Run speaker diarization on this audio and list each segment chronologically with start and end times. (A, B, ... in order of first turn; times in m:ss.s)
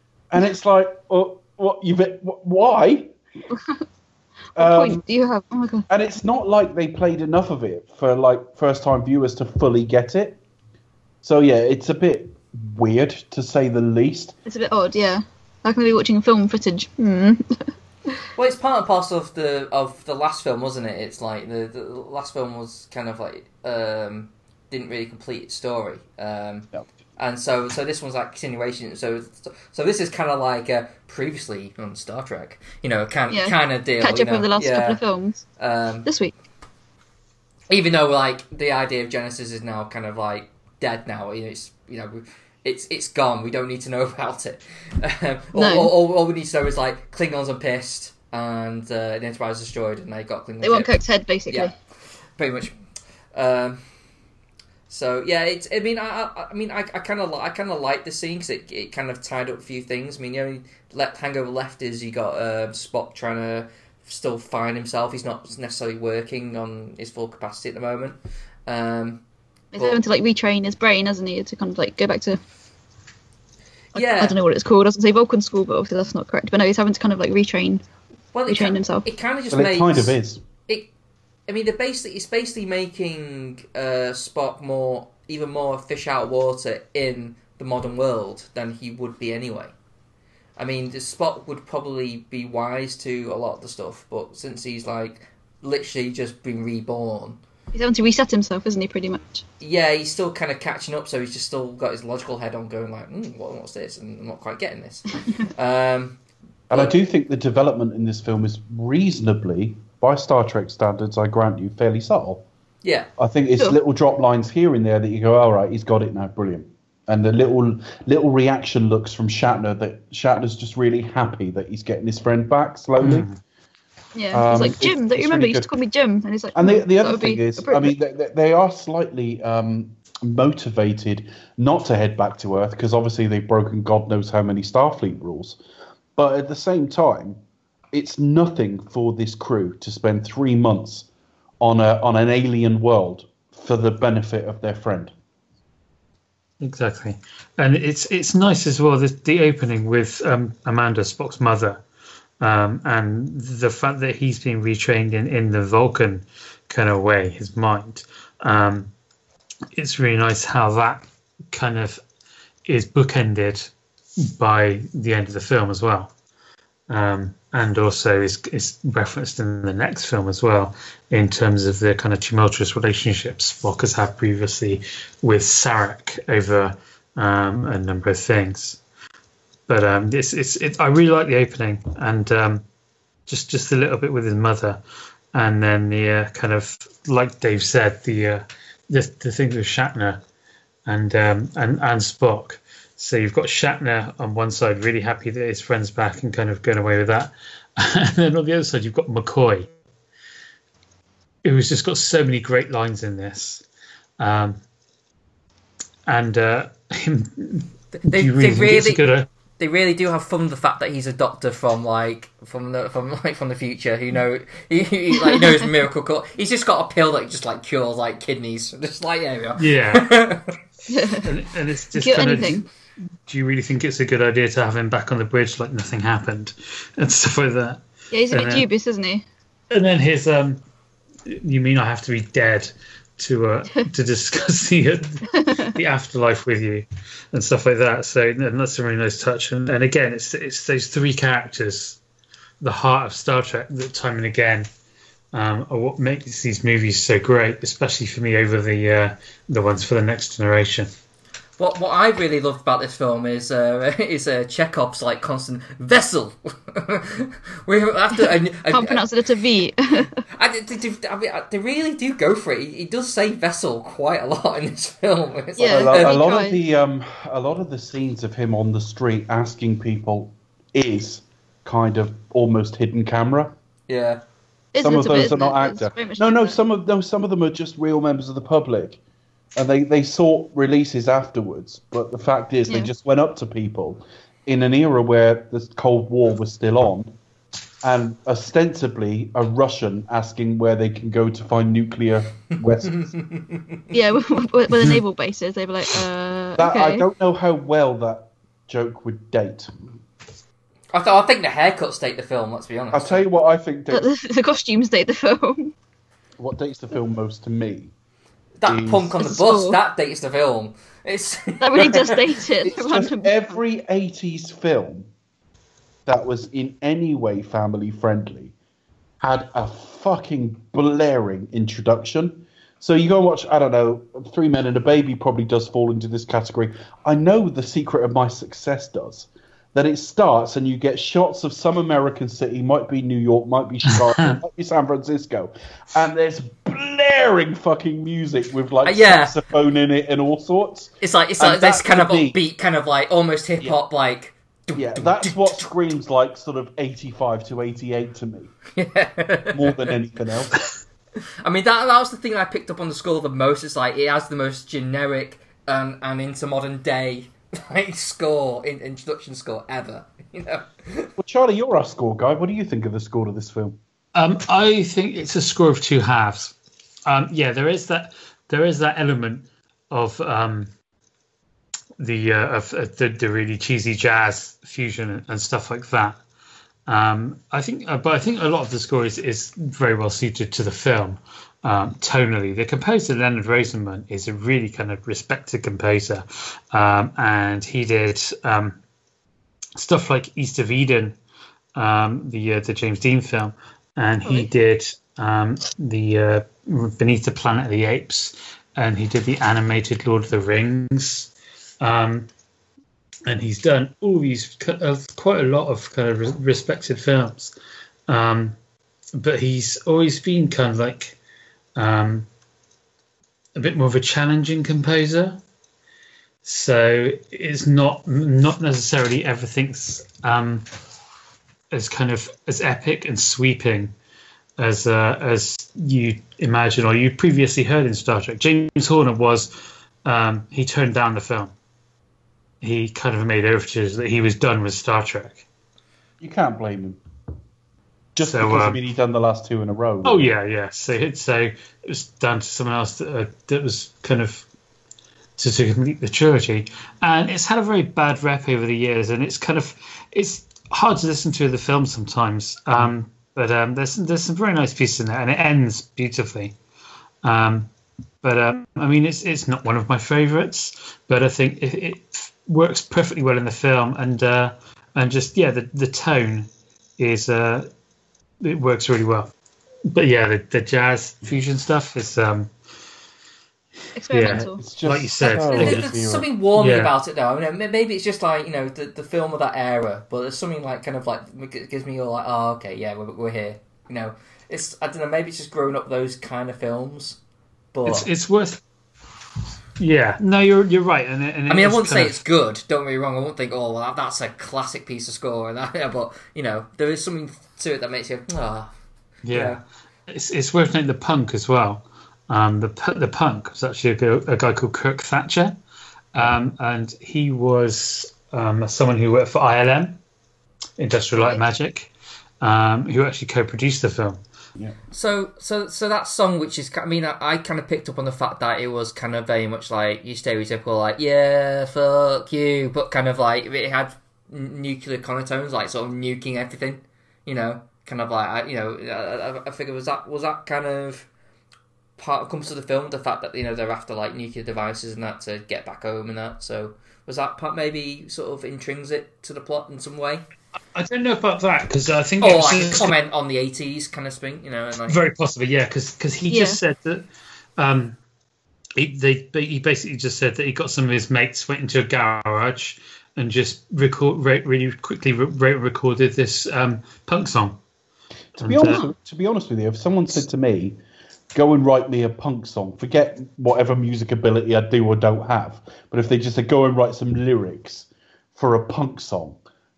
0:00.3-0:03.1 A
0:03.5-0:03.8 B
0:04.6-0:05.0 A
0:04.6-0:05.9 B
0:05.9-0:10.4 A
0:11.2-0:14.4 A
0:14.4-0:17.7 B
0:18.4-0:35.0 C
0:33.3-0:35.4 B
0:35.6-0:36.1 C
0:36.0-0:36.3 B
0:37.7-0:51.7 C
0:45.5-0:45.9 B
0:50.6-0:51.7 B
0:52.4-0:52.8 C
0:53.3-0:53.8 C
0:54.9-1:09.2 C
1:09.7-1:12.4 B
1:09.8-1:10.0 C
1:13.9-1:14.4 C
1:13.9-1:17.8 B
1:18.3-1:20.2 C
1:18.5-1:19.0 B
1:19.5-1:20.4 A
1:21.5-1:29.7 C
1:30.6-1:37.4 C
1:37.7-1:39.4 B
1:39.6-1:46.2 C
1:46.7-1:52.4 A
1:52.8-1:53.1 C
1:53.2-2:03.3 A
2:03.0-2:03.4 D
2:04.2-2:07.9 B
2:04.3-2:05.7 A
2:06.5-2:15.6 A
2:16.2-2:17.4 A
2:17.9-2:21.1 A
2:21.6-2:25.1 A
2:26.6-2:31.8 D
2:32.4-2:38.9 D
2:39.7-2:42.0 D
2:42.6-2:43.7 D
2:44.3-2:46.1 D
2:46.9-2:58.8 D
2:59.7-3:02.6 D
3:03.3-3:04.8 D
3:05.3-3:10.2 D
3:10.8-3:19.7 D
3:21.4-3:23.6 D
3:24.2-3:24.6 D
3:26.1-3:29.3 D
3:28.0-3:29.0 C
3:29.6-3:40.4 C
3:39.6-3:40.1 D
3:40.9-3:41.3 B
3:41.2-3:42.6 D
3:42.0-3:42.7 B
3:43.2-3:48.7 D
3:48.1-3:49.2 B
3:49.7-3:50.6 D
3:51.3-4:02.0 D
3:55.4-3:55.7 B
4:02.6-4:04.7 D
4:05.3-4:10.9 D
4:11.6-4:19.1 C
4:18.2-4:20.2 B
4:20.3-4:26.2 C
4:25.6-4:26.6 B
4:25.7-4:33.6 A
4:33.9-4:34.2 C
4:34.7-4:36.6 B
4:34.8-4:39.0 A
4:39.6-4:47.1 A
4:47.8-4:53.1 A
4:52.9-4:53.8 C
4:53.9-4:57.0 B
4:56.6-4:59.7 A
5:00.9-5:03.2 C
5:02.9-5:04.1 A
5:03.9-5:05.7 B
5:06.4-5:07.9 A
5:08.6-5:12.2 C
5:08.6-5:09.2 A
5:09.2-5:09.8 B
5:11.6-5:13.6 B
5:12.6-5:15.1 A
5:16.0-5:18.5 A
5:19.2-5:42.4 A
5:38.8-5:39.3 C
5:41.0-5:45.6 C
5:44.7-5:48.5 A
5:48.8-5:49.8 C
5:49.5-5:50.5 A
5:51.4-6:01.1 C
6:01.2-6:03.8 A
6:04.1-6:06.5 D
6:07.0-6:10.7 D
6:12.0-6:16.2 D
6:16.9-6:28.8 D
6:29.8-6:31.2 D
6:31.7-6:42.3 D
6:43.3-6:47.5 D
6:48.1-6:48.6 D
6:49.2-6:51.2 D
6:51.8-6:52.3 D
6:53.6-6:55.4 D
6:56.4-7:00.6 D
7:01.7-7:03.9 D
7:04.6-7:09.5 D
7:10.0-7:11.5 D
7:12.6-7:15.4 D
7:16.2-7:17.0 A
7:18.1-7:20.3 A
7:18.2-7:18.8 D
7:20.0-7:24.4 D
7:25.4-7:36.6 D
7:37.2-7:37.7 D
7:38.2-7:46.5 D
7:47.0-7:47.7 D
7:48.4-7:49.3 D
7:49.9-7:52.5 D
7:54.0-7:54.6 B
7:54.1-7:55.9 D
7:54.3-7:56.3 A
7:55.3-8:07.2 C
7:56.6-7:56.9 D
8:07.7-8:08.1 C
8:07.8-8:08.6 D
8:09.8-8:12.1 D
8:11.5-8:18.7 C
8:19.3-8:25.6 D
8:19.3-8:19.6 C
8:26.1-8:30.0 D
8:30.8-8:34.2 D
8:34.9-8:51.1 C
8:52.0-9:00.2 C
9:00.7-9:02.9 D
9:02.2-9:05.0 C
9:04.9-9:07.0 D
9:06.3-9:06.6 B
9:07.6-9:08.0 D
9:08.8-9:17.6 D
9:18.4-9:20.8 A
9:18.4-9:18.8 D
9:21.3-9:29.4 A